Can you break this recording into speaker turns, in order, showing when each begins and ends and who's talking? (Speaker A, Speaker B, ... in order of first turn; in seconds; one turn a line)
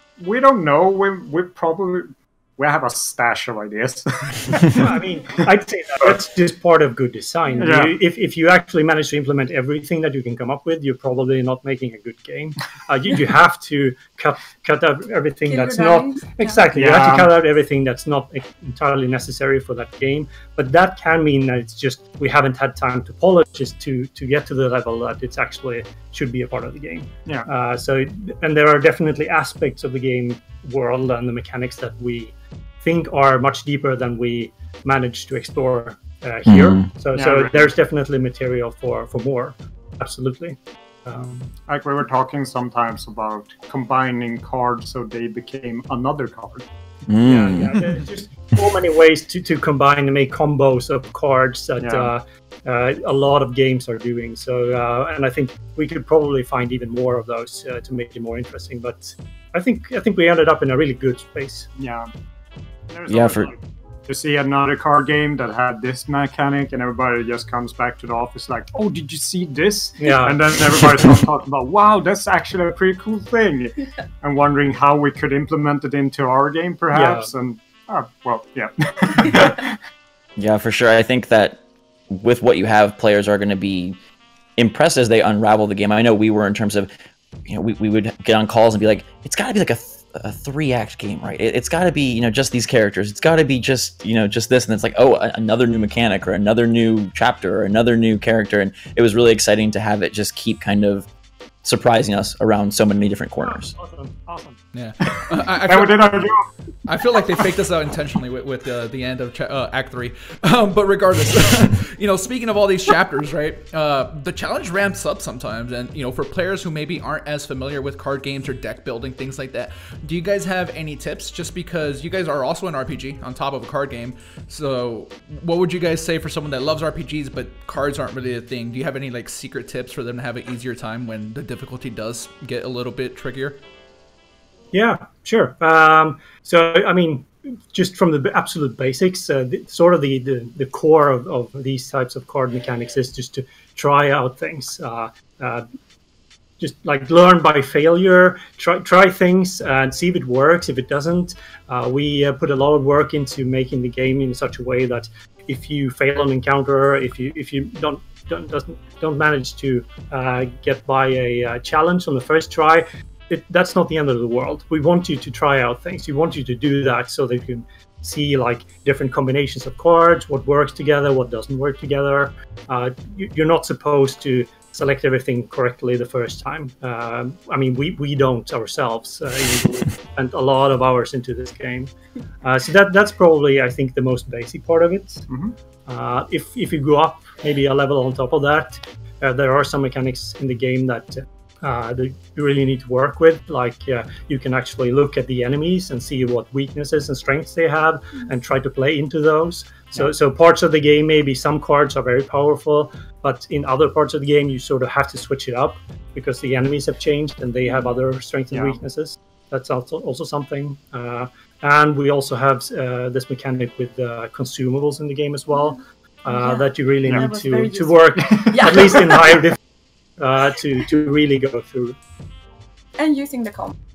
Speaker A: 0.2-4.9
Speaker B: 4.7-41.5
Speaker A: 7.6-8.0
Speaker C: 15.5-16.7
Speaker A: 16.7-17.3
Speaker D: 36.5-36.9
Speaker A: 37.1-37.6
Speaker A: 41.7-46.7
Speaker D: 47.1-47.9
Speaker B: 47.2-61.7
Speaker A: 51.8-52.1
Speaker A: 61.8-62.1
Speaker A: 62.9-79.8
Speaker D: 63.1-63.5
Speaker B: 70.0-70.4
Speaker B: 76.9-77.3
Speaker D: 80.4-84.0
Speaker D: 84.6-86.9
Speaker D: 87.5-101.1
Speaker D: 101.6-103.7
Speaker B: 103.4-104.6
Speaker E: 104.7-106.3
Speaker A: 105.1-106.5
Speaker E: 106.9-133.6
Speaker B: 134.7-145.7
Speaker B: 146.6-185.3
Speaker A: 185.3-185.6
Speaker B: 185.9-219.6
Speaker A: 208.5-208.8
Speaker C: 216.3-219.4
Speaker B: 220.2-222.0
Speaker C: 223.0-223.8